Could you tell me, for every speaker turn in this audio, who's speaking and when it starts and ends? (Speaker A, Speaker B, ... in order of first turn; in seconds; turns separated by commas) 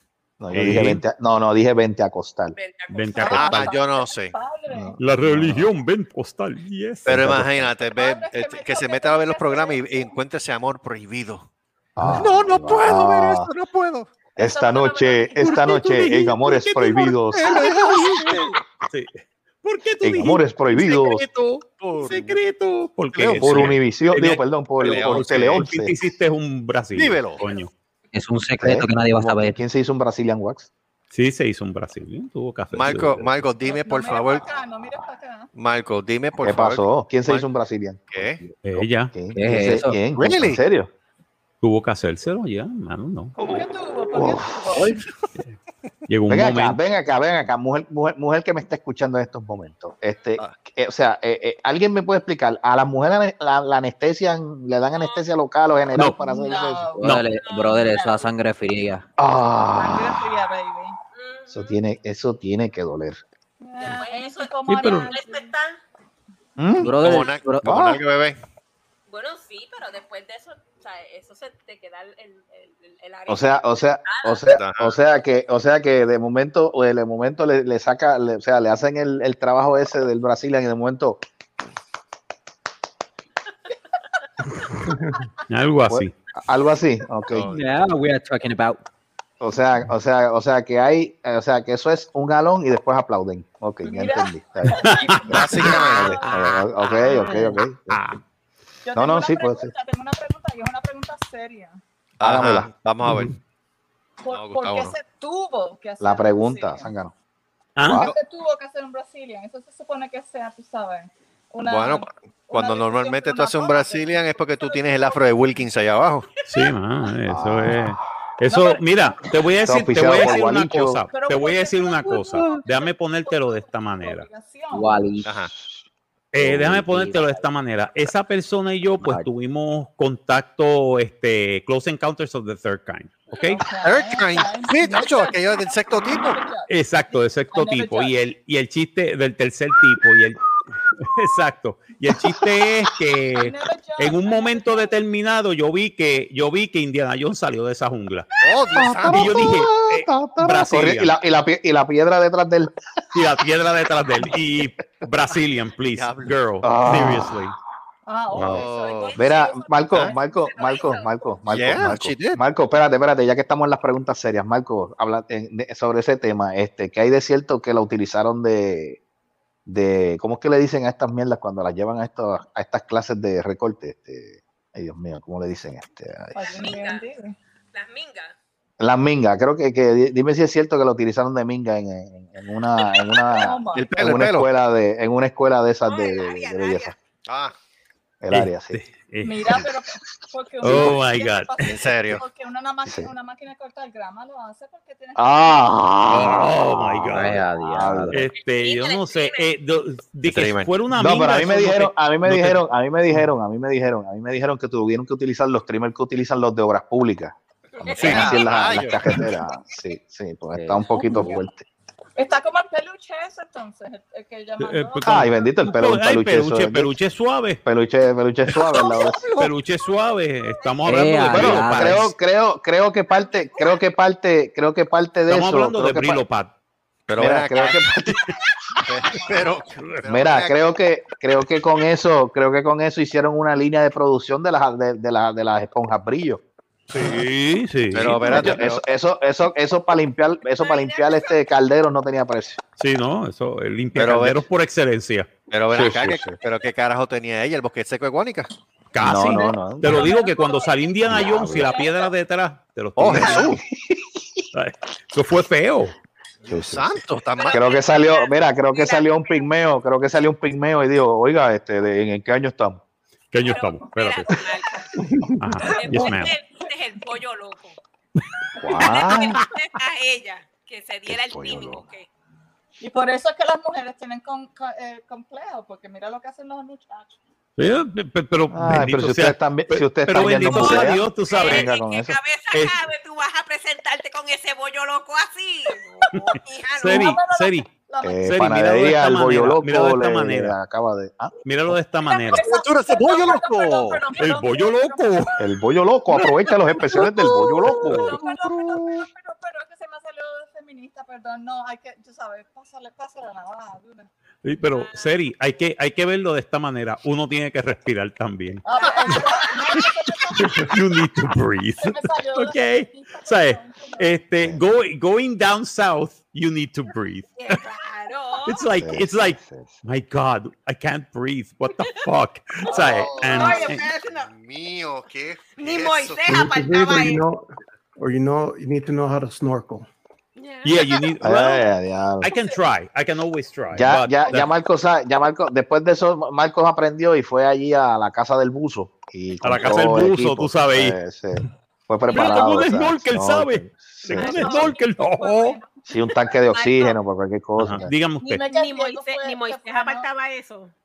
Speaker A: 0.4-2.5, Speaker B: 0.5-1.0, Speaker C: 2.5-3.4, Speaker B: 2.9-3.6, Speaker D: 3.2-5.0, Speaker E: 3.3-4.3, Speaker A: 4.7-5.7, Speaker B: 5.0-7.4, Speaker E: 7.0-11.5, Speaker A: 7.1-7.7, Speaker D: 7.8-10.1, Speaker A: 11.9-13.5, Speaker E: 12.1-14.2, Speaker D: 14.3-16.1, Speaker A: 14.4-17.6, Speaker B: 15.4-17.2, Speaker E: 17.3-18.5, Speaker B: 18.9-27.7, Speaker A: 20.0-21.2, Speaker E: 21.8-22.4, Speaker E: 23.1-23.8, Speaker A: 23.2-25.9, Speaker E: 24.8-25.6, Speaker E: 26.9-27.4, Speaker F: 28.1-29.6, Speaker A: 28.6-30.7, Speaker B: 31.1-33.4, Speaker E: 32.7-34.5, Speaker D: 33.6-35.5, Speaker E: 35.5-37.5, Speaker A: 36.4-40.9, Speaker E: 38.1-38.4, Speaker B: 38.6-39.1, Speaker F: 39.3-40.0, Speaker E: 40.1-40.6, Speaker B: 41.6-43.4, Speaker D: 43.4-44.9, Speaker A: 43.4-45.0, Speaker B: 46.1-46.8, Speaker A: 46.3-56.9, Speaker C: 54.9-55.3, Speaker D: 56.0-57.1, Speaker F: 57.0-59.0, Speaker C: 57.3-58.3, Speaker A: 59.2-60.4, Speaker D: 59.8-61.0, Speaker C: 61.1-61.8, Speaker A: 61.5-63.2, Speaker D: 63.6-65.5, Speaker C: 63.8-65.8, Speaker B: 64.7-65.1, Speaker A: 66.6-67.0, Speaker F: 66.8-67.7, Speaker E: 66.9-68.4, Speaker A: 67.6-68.0, Speaker C: 69.1-74.5, Speaker A: 73.3-81.2, Speaker E: 74.5-74.9, Speaker G: 84.8-85.2, Speaker B: 85.5-86.1, Speaker A: 85.9-87.5, Speaker E: 87.3-87.7, Speaker F: 87.5-88.8, Speaker A: 89.4-98.0, Speaker D: 93.8-96.6, Speaker B: 94.7-95.7, Speaker E: 95.3-97.4, Speaker F: 97.3-97.5, Speaker B: 97.9-98.2, Speaker D: 98.8-101.8, Speaker A: 98.9-99.7, Speaker E: 102.2-103.3, Speaker A: 102.2-103.2, Speaker D: 104.2-106.9, Speaker E: 104.3-105.0, Speaker A: 106.0-107.1, Speaker B: 107.8-108.0, Speaker A: 107.8-108.1, Speaker D: 108.0-115.2, Speaker E: 111.6-116.2, Speaker B: 116.5-124.3, Speaker A: 117.3-118.1, Speaker D: 118.5-119.2, Speaker A: 119.7-121.0, Speaker D: 120.2-120.5, Speaker D: 121.1-125.2, Speaker F: 124.7-125.4, Speaker E: 125.2-125.5, Speaker A: 125.5-125.8, Speaker B: 126.3-133.6, Speaker F: 126.4-127.4, Speaker A: 126.5-126.8, Speaker F: 129.0-129.3, Speaker D: 133.4-138.1, Speaker E: 133.8-136.4, Speaker B: 136.7-140.4, Speaker B: 141.0-148.3, Speaker D: 143.3-144.9, Speaker E: 148.4-149.4, Speaker A: 148.7-153.2, Speaker B: 149.1-151.2, Speaker B: 153.1-157.5, Speaker E: 155.9-156.3, Speaker A: 156.6-157.5, Speaker D: 158.1-159.4, Speaker A: 158.3-158.6, Speaker E: 158.3-159.2, Speaker C: 158.7-161.2, Speaker A: 159.1-169.0, Speaker E: 161.5-162.4, Speaker A: 169.7-176.7, Speaker D: 176.3-177.3, Speaker C: 176.4-177.1, Speaker C: 177.7-178.3, Speaker A: 178.8-186.9, Speaker D: 183.3-183.9, Speaker E: 183.7-184.5, Speaker C: 185.8-186.9, Speaker E: 187.2-187.5, Speaker A: 188.2-188.8, Speaker B: 188.3-189.6, Speaker D: 189.2-195.8, Speaker B: 190.6-191.6, Speaker A: 190.6-190.9, Speaker E: 191.6-192.2, Speaker A: 192.8-193.1, Speaker A: 195.2-198.1, Speaker B: 196.1-197.4, Speaker F: 197.1-198.2, Speaker B: 198.1-202.6, Speaker C: 198.3-199.5, Speaker E: 200.2-200.7, Speaker A: 200.9-207.3, Speaker C: 207.8-208.8, Speaker A: 207.9-211.6, Speaker E: 207.9-209.0, Speaker B: 208.0-208.3, Speaker F: 210.5-211.4, Speaker D: 212.2-215.5, Speaker B: 214.6-217.6, Speaker A: 215.0-216.9, Speaker A: 217.6-219.2, Speaker B: 219.3-222.1, Speaker F: 220.9-222.1, Speaker A: 221.3-226.2, Speaker B: 225.3-226.5, Speaker E: 227.1-227.8, Speaker A: 227.2-228.3, Speaker E: 228.8-230.6, Speaker B: 229.7-230.0, Speaker A: 230.1-236.4, Speaker B: 236.9-238.6, Speaker E: 237.9-238.8, Speaker A: 238.2-242.6, Speaker C: 240.4-241.3, Speaker B: 242.8-245.3, Speaker E: 243.9-244.4, Speaker E: 245.5-248.5, Speaker A: 245.7-246.3, Speaker B: 248.9-253.4, Speaker A: 249.0-250.1, Speaker D: 249.3-250.8, Speaker A: 251.0-251.7, Speaker C: 251.6-251.8, Speaker D: 251.6-251.9, Speaker E: 253.0-253.6, Speaker A: 253.1-254.4, Speaker B: 254.5-255.9, Speaker E: 256.4-257.7, Speaker A: 256.4-262.8, Speaker C: 257.3-259.5, Speaker B: 263.3-264.3, Speaker C: 263.4-264.9, Speaker G: 265.0-265.4, Speaker B: 265.4-266.3, Speaker C: 265.6-267.8, Speaker D: 265.7-266.0, Speaker A: 268.6-269.4, Speaker C: 268.7-272.1, Speaker A: 271.1-271.8, Speaker D: 272.8-277.2, Speaker B: 277.6-281.7, Speaker A: 278.5-282.2, Speaker C: 280.5-287.1, Speaker B: 282.5-282.9, Speaker B: 286.8-287.7, Speaker D: 286.8-288.4, Speaker A: 288.0-291.3, Speaker B: 288.2-290.6, Speaker B: 291.4-292.5, Speaker D: 292.1-295.4, Speaker E: 292.3-294.0, Speaker B: 294.2-295.3, Speaker A: 295.4-298.2, Speaker D: 296.9-304.1, Speaker B: 297.6-298.1, Speaker E: 298.6-298.9, Speaker B: 304.4-309.2, Speaker C: 304.7-305.2, Speaker D: 308.6-310.7, Speaker C: 308.7-309.9, Speaker B: 310.5-317.3, Speaker D: 311.8-314.2, Speaker C: 317.4-318.6, Speaker B: 318.4-323.9, Speaker A: 318.8-319.8, Speaker C: 322.7-324.3, Speaker E: 322.7-326.4, Speaker C: 325.6-327.2, Speaker G: 326.2-329.9, Speaker C: 330.4-331.1, Speaker B: 330.6-331.6, Speaker A: 331.2-332.3, Speaker B: 332.2-334.5, Speaker D: 332.2-332.6, Speaker A: 333.7-344.6, Speaker B: 339.4-340.9, Speaker B: 342.1-345.6, Speaker C: 344.1-344.8, Speaker D: 344.3-344.6, Speaker D: 345.2-345.8, Speaker A: 345.9-347.9, Speaker C: 346.5-347.0, Speaker B: 347.6-348.4, Speaker C: 348.2-350.7, Speaker D: 348.4-350.1